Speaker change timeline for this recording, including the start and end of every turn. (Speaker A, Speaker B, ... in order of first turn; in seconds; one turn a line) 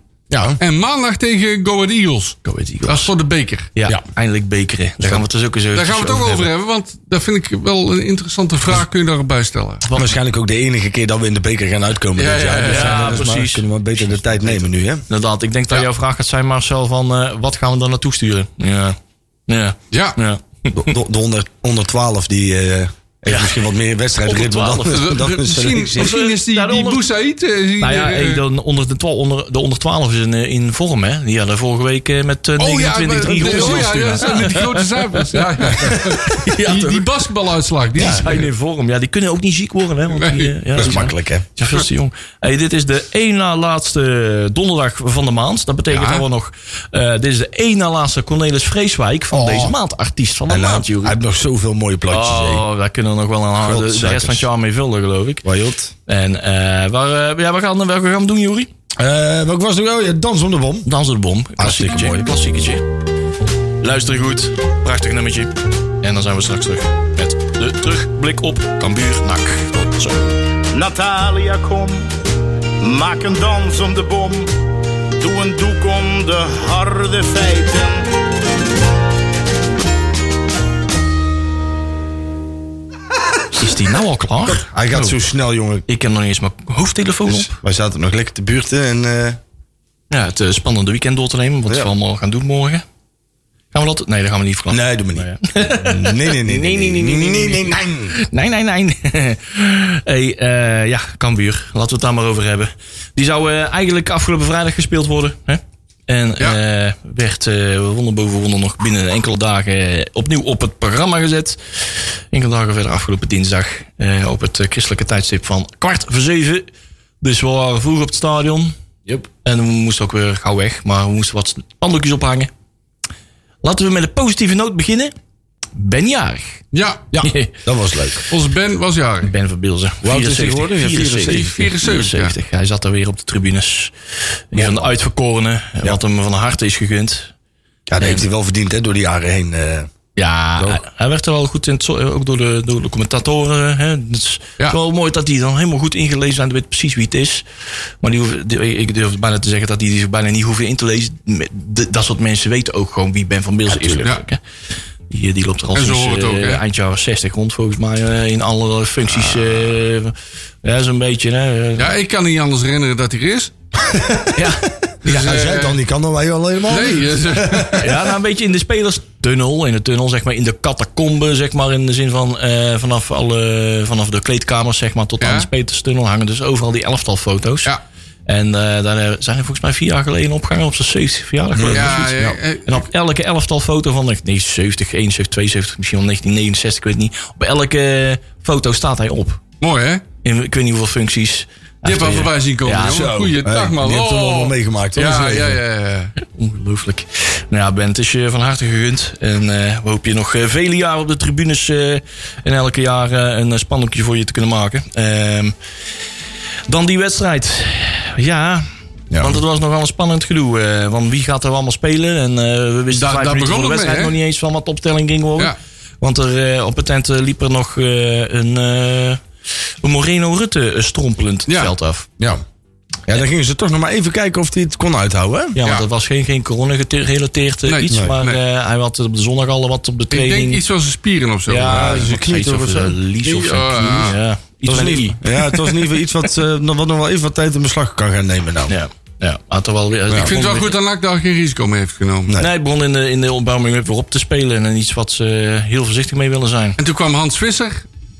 Speaker A: 0.3-0.6
Speaker B: 0.6-3.7
Speaker C: 2.4-3.1
Speaker C: 3.7-6.5
Speaker B: 5.7-9.8
Speaker A: 9.9-15.0
Speaker B: 12.2-13.3
Speaker C: 12.6-13.7
Speaker C: 14.2-14.5
Speaker C: 15.1-20.9
Speaker B: 19.9-20.2
Speaker A: 20.7-26.2
Speaker C: 23.2-23.6
Speaker C: 24.2-25.2
Speaker B: 24.9-28.4
Speaker C: 25.9-27.0
Speaker C: 27.8-37.0
Speaker B: 32.6-38.5
Speaker A: 33.4-34.0
Speaker A: 37.9-38.2
Speaker C: 38.0-51.2
Speaker B: 40.1-40.9
Speaker A: 40.8-41.5
Speaker B: 45.9-46.2
Speaker A: 49.3-49.7
Speaker A: 50.5-52.6
Speaker C: 52.1-55.4
Speaker A: 53.6-54.5
Speaker A: 55.4-55.9
Speaker C: 56.1-58.7
Speaker A: 59.0-60.9
Speaker C: 60.9-62.8
Speaker A: 61.6-62.3
Speaker C: 63.8-70.3
Speaker D: 70.7-72.1
Speaker D: 72.8-74.5
Speaker D: 75.2-78.0
Speaker C: 83.6-85.2
Speaker A: 84.5-85.8
Speaker C: 85.9-87.6
Speaker A: 87.3-89.4
Speaker C: 90.1-92.8
Speaker C: 93.7-116.7
Speaker A: 94.7-98.1
Speaker C: 117.2-122.5
Speaker C: 123.6-125.1
Speaker C: 125.8-126.6
Speaker B: 126.7-127.1
Speaker A: 127.1-128.2
Speaker C: 127.2-127.5
Speaker B: 128.3-129.3
Speaker C: 129.2-133.9
Speaker A: 130.0-131.6
Speaker B: 131.1-132.3
Speaker C: 134.5-137.3
Speaker A: 134.6-134.9
Speaker A: 137.9-139.9
Speaker C: 138.0-138.2
Speaker C: 140.2-147.4
Speaker C: 148.0-154.4
Speaker A: 153.7-154.1
Speaker C: 155.1-161.9
Speaker B: 155.7-156.6
Speaker B: 161.8-163.5
Speaker A: 163.8-167.9
Speaker C: 164.3-164.8
Speaker B: 165.0-165.8
Speaker B: 166.7-167.9
Speaker C: 167.8-177.7
Speaker B: 175.2-175.5
Speaker C: 178.3-189.4
Speaker A: 181.5-182.0
Speaker B: 181.6-182.9
Speaker B: 189.6-190.0
Speaker C: 190.2-193.1
Speaker B: 191.8-196.1
Speaker A: 192.8-195.6
Speaker C: 196.2-205.5
Speaker C: 206.7-219.2
Speaker A: 209.1-209.4
Speaker B: 212.9-214.2
Speaker C: 219.8-222.1
Speaker B: 221.5-221.7
Speaker A: 223.1-225.6
Speaker C: 225.6-230.6
Speaker B: 227.7-228.4
Speaker B: 230.1-232.0
Speaker C: 231.5-235.9
Speaker A: 231.6-233.0
Speaker B: 233.2-234.2
Speaker A: 233.8-234.1
Speaker A: 234.7-238.7
Speaker C: 238.7-240.7
Speaker B: 240.2-242.3
Speaker C: 242.3-246.8
Speaker B: 246.8-247.8